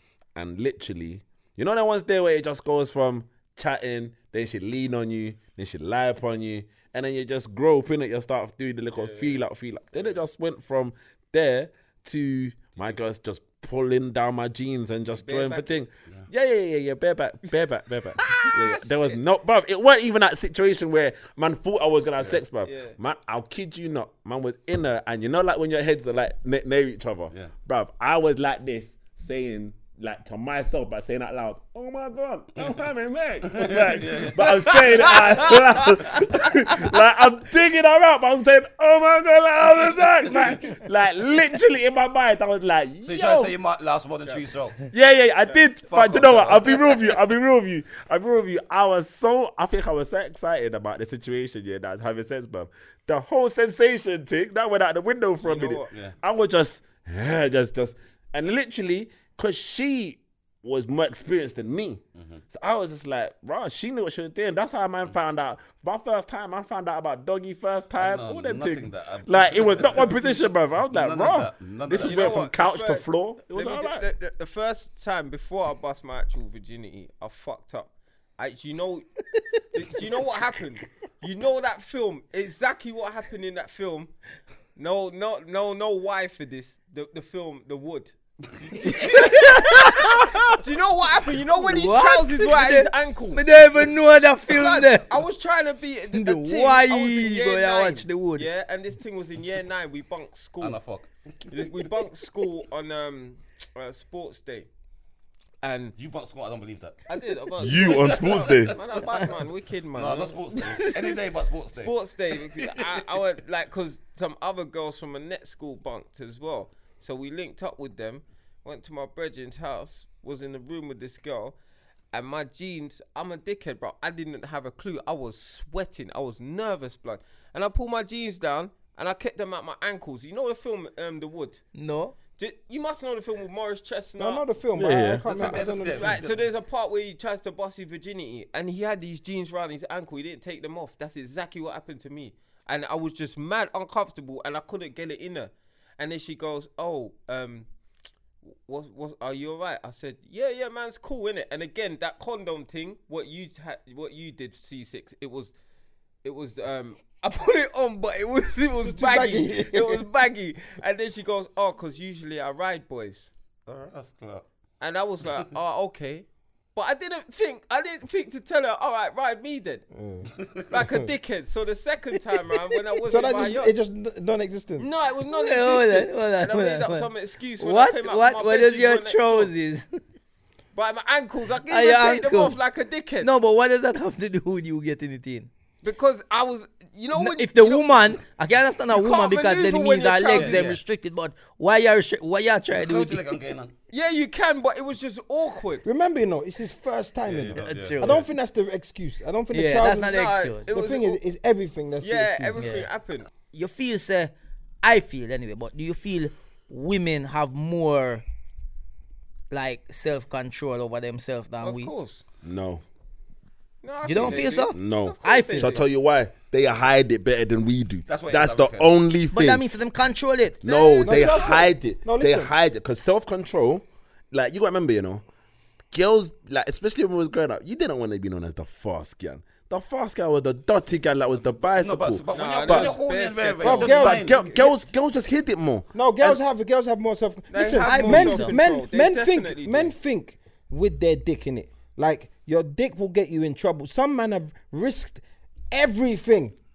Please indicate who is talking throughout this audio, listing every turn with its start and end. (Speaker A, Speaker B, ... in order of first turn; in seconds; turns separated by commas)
Speaker A: 0.3-43.5, Speaker B: 8.9-9.4, Speaker B: 15.2-15.8, Speaker B: 18.2-19.2, Speaker B: 22.6-23.0, Speaker C: 33.5-35.2, Speaker B: 34.8-36.0, Speaker C: 43.0-44.9, Speaker A: 44.9-74.0, Speaker C: 45.9-47.2, Speaker B: 55.4-55.9, Speaker C: 68.0-70.2, Speaker C: 70.9-72.4, Speaker B: 71.9-79.1, Speaker B: 79.7-84.1, Speaker B: 84.7-88.1, Speaker C: 88.6-89.4, Speaker B: 88.8-93.9, Speaker D: 89.1-90.5, Speaker D: 91.5-95.2, Speaker B: 94.5-100.8, Speaker D: 96.1-98.5, Speaker C: 100.6-101.5, Speaker B: 101.5-104.7, Speaker B: 105.6-105.9, Speaker C: 106.0-107.0, Speaker B: 107.1-111.0, Speaker A: 107.6-108.8, Speaker C: 107.7-109.2, Speaker C: 109.9-111.9, Speaker B: 111.7-121.6, Speaker C: 112.5-113.0, Speaker B: 122.1-131.6, Speaker D: 131.7-132.1, Speaker B: 132.3-134.4, Speaker E: 134.2-136.2, Speaker A: 134.8-135.2, Speaker C: 135.2-136.4, Speaker B: 135.5-147.7, Speaker B: 148.4-155.5, Speaker B: 156.2-163.3, Speaker E: 158.8-160.0, Speaker C: 163.7-164.4, Speaker B: 164.8-169.8, Speaker E: 169.9-171.1, Speaker B: 170.7-173.7, Speaker E: 173.1-174.9, Speaker B: 174.8-179.5, Speaker D: 175.3-180.0, Speaker B: 180.7-183.3, Speaker D: 181.7-182.6, Speaker D: 183.2-185.5, Speaker B: 185.8-188.1, Speaker D: 187.1-193.2, Speaker B: 188.9-190.8, Speaker C: 190.3-190.8, Speaker C: 192.7-193.7, Speaker B: 193.9-195.8, Speaker E: 195.8-200.1, Speaker C: 197.2-198.0, Speaker D: 197.5-198.3, Speaker D: 199.5-200.7, Speaker B: 200.0-201.2, Speaker E: 200.7-202.6, Speaker B: 202.0-203.3, Speaker D: 202.6-202.9, Speaker D: 203.5-208.2, Speaker D: 209.5-211.9, Speaker B: 211.6-212.2, Speaker A: 212.4-212.8, Speaker B: 213.8-215.8, Speaker D: 214.0-215.8, Speaker A: 214.2-219.7, Speaker C: 218.1-218.9, Speaker D: 219.3-220.6, Speaker A: 220.6-225.2, Speaker B: 220.6-221.6, Speaker E: 221.0-222.5, Speaker A: 225.9-232.9, Speaker C: 231.7-234.5, Speaker B: 232.3-234.1, Speaker E: 233.6-234.5, Speaker A: 233.9-235.8, Speaker E: 235.9-246.5, Speaker B: 237.5-239.9, Speaker D: 237.8-238.6